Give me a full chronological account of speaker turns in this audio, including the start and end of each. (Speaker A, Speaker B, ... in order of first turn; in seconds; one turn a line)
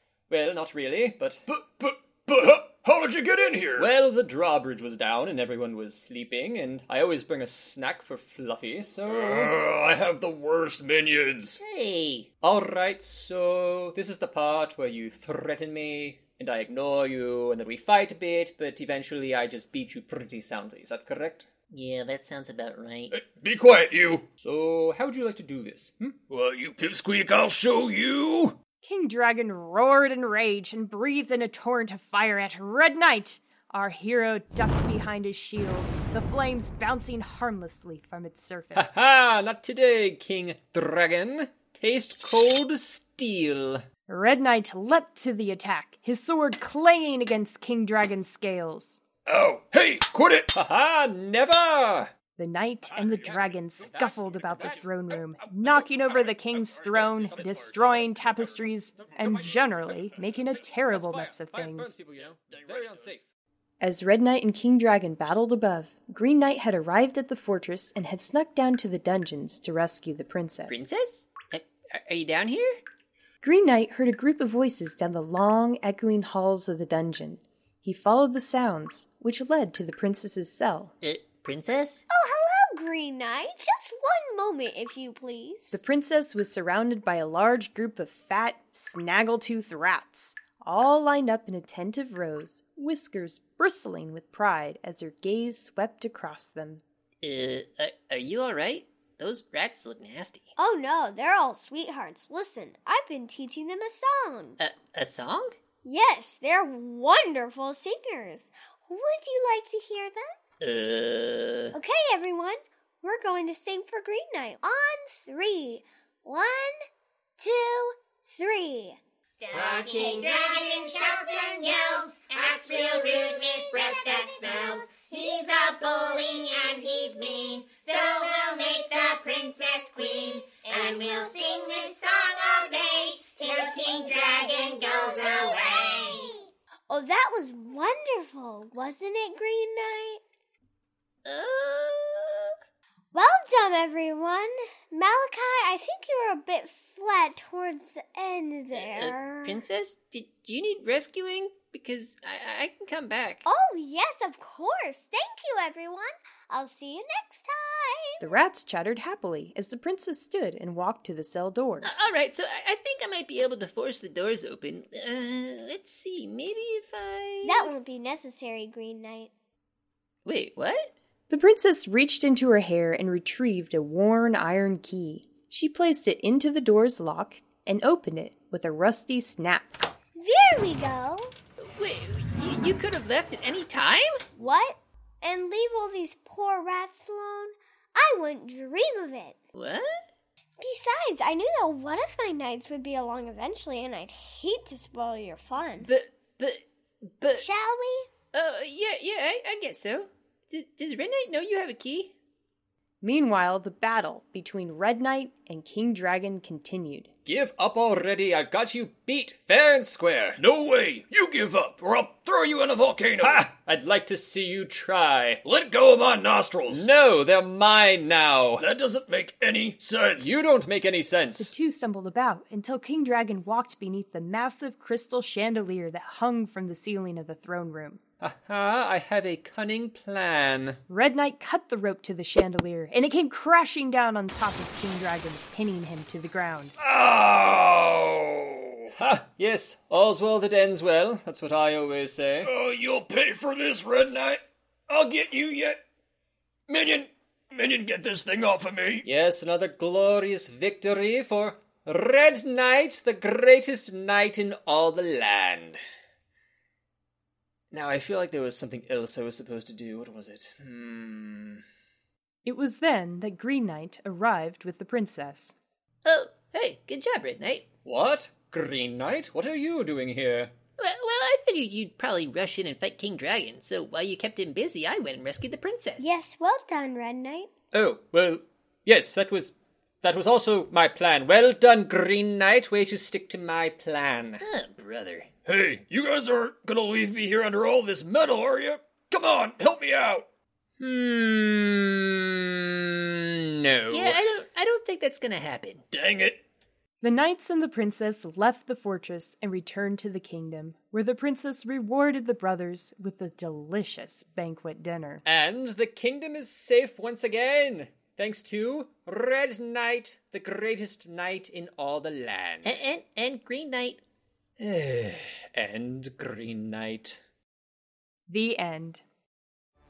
Speaker A: 0.3-1.4
Speaker B: 1.5-3.9
Speaker A: 3.8-9.6
Speaker B: 9.1-11.6
Speaker C: 11.6-12.3
Speaker A: 12.4-21.4
Speaker C: 21.7-23.1
Speaker B: 23.1-24.3
Speaker A: 24.4-26.1
Speaker B: 26.3-28.6
Speaker D: 28.8-39.0
Speaker A: 38.8-43.8
Speaker D: 44.1-49.0
Speaker B: 49.2-50.5
Speaker A: 50.5-52.1
Speaker D: 52.4-61.9
Speaker A: 53.1-54.9
Speaker B: 53.9-55.8
Speaker B: 56.5-58.5
Speaker A: 60.7-63.2
Speaker B: 62.5-63.2
Speaker D: 63.8-70.9
Speaker C: 70.7-72.8
Speaker D: 73.4-80.9
Speaker C: 81.0-82.0
Speaker E: 82.1-85.8
Speaker D: 85.7-96.8
Speaker C: 97.2-100.5
Speaker E: 100.6-104.6
Speaker C: 104.6-105.6
Speaker E: 105.8-110.2
Speaker C: 110.6-111.8
Speaker E: 111.7-116.7
Speaker E: 117.4-119.0
Speaker F: 119.4-136.5
Speaker E: 135.2-135.6
Speaker E: 136.9-140.2
Speaker C: 141.2-142.5
Speaker E: 143.1-149.6
Speaker C: 148.7-153.4
Speaker E: 153.4-158.3
Speaker D: 158.2-162.1
Speaker C: 161.8-167.8
Speaker E: 167.4-169.3
Speaker C: 170.2-170.9
Speaker D: 171.3-179.8
Speaker E: 180.2-181.3
Speaker C: 181.6-184.2
Speaker E: 184.3-189.3
Speaker C: 189.5-190.0
Speaker E: 190.6-195.9
Speaker C: 195.7-196.6
Speaker C: 197.2-197.4
Speaker E: 197.3-198.1
Speaker C: 198.3-202.1
Speaker D: 203.0-207.1
Speaker A: 207.3-210.4
Speaker B: 210.4-213.4
Speaker A: 213.2-215.4
Speaker B: 215.4-216.9
Speaker A: 216.7-218.6
Speaker B: 218.6-220.4
Speaker A: 220.2-221.5
Speaker D: 221.4-228.0
Speaker A: 228.2-230.8
Speaker D: 230.9-236.7
Speaker B: 236.8-238.8
Speaker A: 238.9-242.5
Speaker B: 242.4-245.8
Speaker B: 246.7-249.1
Speaker A: 249.0-255.8
Speaker A: 257.7-261.6
Speaker D: 262.4-265.5
Speaker C: 266.0-267.7
Speaker A: 267.9-270.5
Speaker C: 270.8-276.1
Speaker E: 276.0-277.5
Speaker A: 277.7-284.4
Speaker C: 284.4-285.3
Speaker B: 285.4-290.2
Speaker A: 290.8-294.2
Speaker C: 293.9-295.8
Speaker B: 295.9-296.4
Speaker D: 297.0-305.2
Speaker A: 305.2-312.8
Speaker C: 312.6-314.0
Speaker A: 314.6-317.2
Speaker D: 318.3-319.0